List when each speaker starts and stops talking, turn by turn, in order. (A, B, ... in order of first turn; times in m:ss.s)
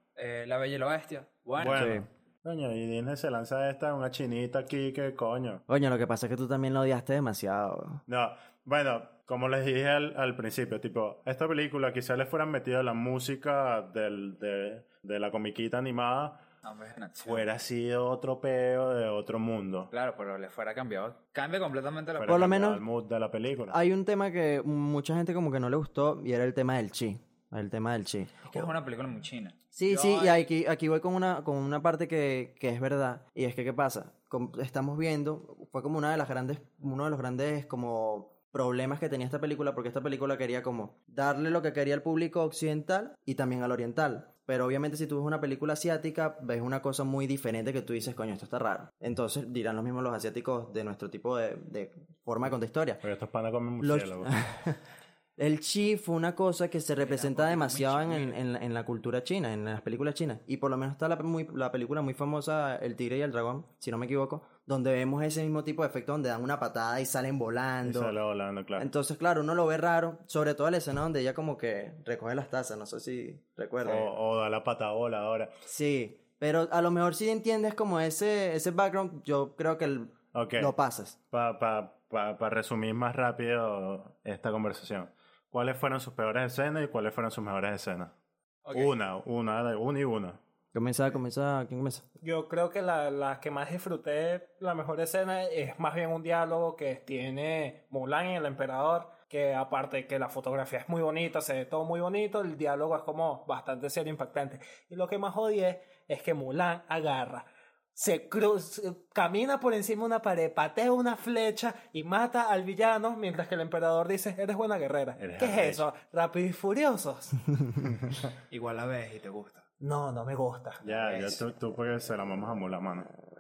0:00.2-0:01.9 A
0:01.6-0:05.6 B
0:01.6-0:02.1 C
0:05.7-0:08.0 C
0:08.1-0:16.4 B
0:16.6-0:17.4 A
0:17.2-0:19.9 B
0:19.9-0:22.5 A
0:22.2-0:23.8 B
0:22.3-0:22.8 C
0:23.7-0:28.7 C
0:28.4-0:30.5 A
0:29.8-0:53.0 C
0:53.0-0:54.3 B
0:53.8-0:54.8 C
0:55.4-1:08.1 C
0:57.0-0:58.4 A
1:07.8-1:08.9 B
1:08.8-1:14.1 C
1:13.8-1:15.5 B
1:15.7-1:21.2 C
1:20.3-1:20.7 B
1:21.3-1:28.1 B
1:28.6-1:29.0 A
1:28.7-1:30.4 B
1:30.7-1:32.0 C
1:32.2-1:57.4 D
1:55.2-1:55.9 B
1:58.5-1:59.6 A
1:59.8-2:01.3 D
2:00.8-2:03.1 B